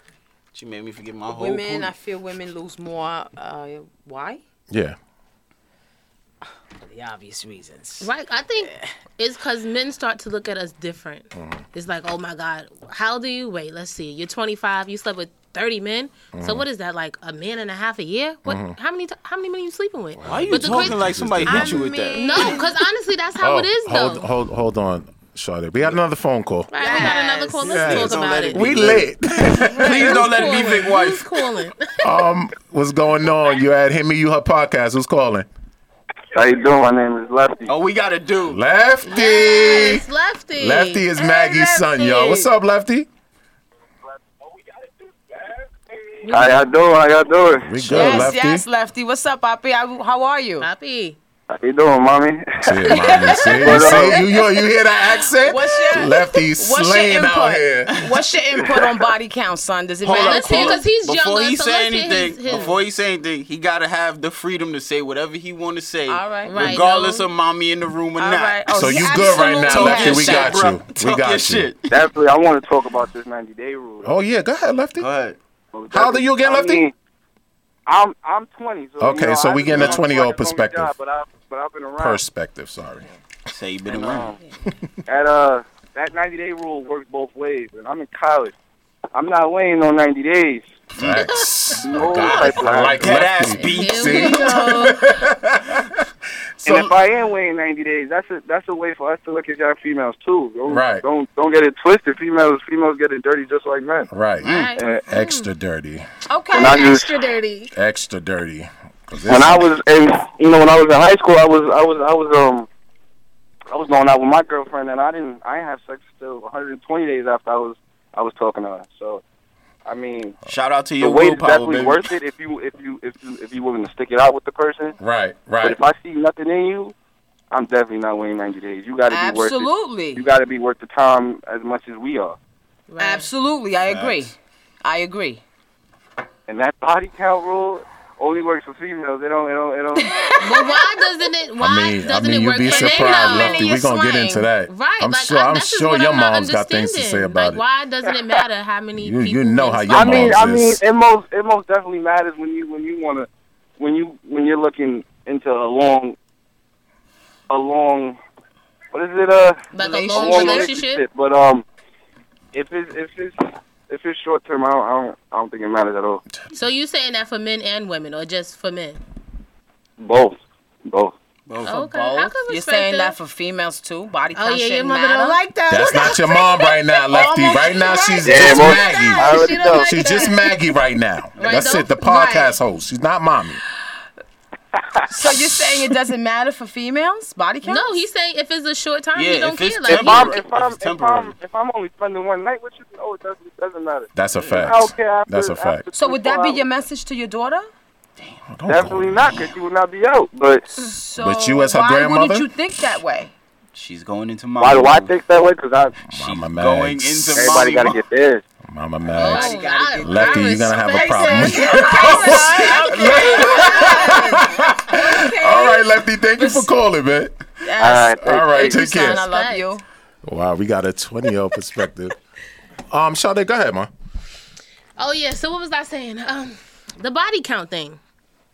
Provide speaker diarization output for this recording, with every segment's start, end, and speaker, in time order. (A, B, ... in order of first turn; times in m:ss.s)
0:00.5-0:01.9 A
0:01.3-0:04.4 B
0:04.7-0:05.0 C
0:06.9-0:08.8 B
0:08.0-0:21.2 D
0:16.3-0:16.6 C
0:18.4-0:18.8 C
0:20.2-0:21.9 C
0:20.2-0:22.6 A
0:21.4-0:22.8 B
0:22.1-0:24.3 D
0:23.4-0:26.7 C
0:26.7-0:32.2 D
0:26.8-0:27.6 B
0:27.6-0:31.4 A
0:27.7-0:30.6 C
0:32.0-0:35.5 C
0:36.3-0:37.7 E
0:37.7-0:38.6 A
0:38.5-0:40.1 C
0:39.0-0:41.1 D
0:40.6-0:43.1 C
0:41.2-0:42.5 B
0:46.2-0:46.7 D
0:46.2-0:47.8 E
0:47.6-0:48.6 C
0:47.8-0:50.7 B
0:48.0-0:48.3 D
0:50.6-0:51.2 D
0:51.5-0:54.2 E
0:52.5-0:58.0 C
0:52.9-0:54.5 B
0:53.1-0:53.9 D
0:55.2-1:00.8 B
1:00.0-1:12.0 A
1:00.1-1:02.8 D
1:06.1-1:07.2 B
1:06.4-1:07.1 D
1:08.2-1:10.6 B
1:08.7-1:11.7 C
1:11.9-1:14.2 E
1:14.0-1:15.1 C
1:15.0-1:15.4 A
1:15.7-1:16.9 E
1:15.9-1:16.8 C
1:17.9-1:22.2 E
1:19.0-1:20.9 C
1:19.7-1:20.0 A
1:22.0-1:23.1 C
1:23.5-1:24.3 A
1:23.9-1:24.4 E
1:25.0-1:28.5 E
1:29.1-1:30.6 E
1:31.0-1:31.3 A
1:31.0-1:36.0 C
1:31.2-1:31.8 D
1:31.8-1:33.2 E
1:32.7-1:34.5 A
1:33.6-1:35.2 D
1:33.6-1:34.8 B
1:36.6-1:37.0 C
1:36.6-1:44.1 E
1:40.7-1:41.0 C
1:44.1-1:44.5 C
1:44.4-1:44.8 B
1:44.4-1:44.8 A
1:44.8-1:45.0 E
1:45.1-1:46.0 C
1:45.1-1:45.5 D
1:46.3-1:47.7 B
1:46.5-1:47.2 E
1:47.7-1:49.7 C
1:49.2-1:52.7 E
1:53.7-1:59.2 E
1:59.8-2:00.4 E
2:00.5-2:02.1 A
2:01.0-2:05.0 E
2:05.0-2:05.8 C
2:05.6-2:06.9 E
2:07.5-2:12.4 E
2:09.1-2:10.2 B
2:12.9-2:13.3 D
2:13.0-2:15.4 B
2:13.9-2:14.3 A
2:16.5-2:20.6 E
2:20.0-2:21.0 B
2:20.4-2:24.0 D
2:21.6-2:27.6 C
2:22.6-2:24.4 B
2:24.6-2:30.5 D
2:29.0-2:30.8 C
2:29.9-2:36.2 E
2:37.5-2:38.2 E
2:38.9-2:41.6 E
2:39.7-2:41.0 D
2:39.7-2:40.6 B
2:39.8-2:40.7 A
2:42.5-2:46.2 E
2:46.5-2:49.0 D
2:50.0-2:51.1 E
2:51.5-2:51.8 A
2:51.6-3:00.5 B
2:51.6-2:53.2 D
2:54.3-3:00.5 D
2:55.7-3:03.6 C
2:58.2-2:59.9 E
3:01.4-3:02.6 D
3:01.4-3:01.7 B
3:05.1-3:08.0 B
3:05.2-3:05.9 C
3:07.6-3:10.4 D
3:09.1-3:11.3 A
3:09.9-3:16.6 E
3:14.1-3:15.9 C
3:14.3-3:14.7 A
3:15.9-3:17.7 B
3:18.2-3:18.5 A
3:18.5-3:19.4 C
3:18.7-3:20.7 E
3:19.2-3:19.6 A
3:20.8-3:23.3 B
3:21.2-3:22.5 C
3:23.7-3:25.1 A
3:24.6-3:26.0 E
3:26.1-3:27.5 C
3:26.1-3:28.0 A
3:27.3-3:28.4 E
3:28.6-3:39.2 C
3:29.1-3:36.7 B
3:29.2-3:34.2 D
3:37.6-3:39.8 B
3:37.8-3:38.7 E
3:38.6-3:39.7 D
3:40.2-3:42.1 C
3:42.9-3:43.9 C
3:45.0-3:48.0 D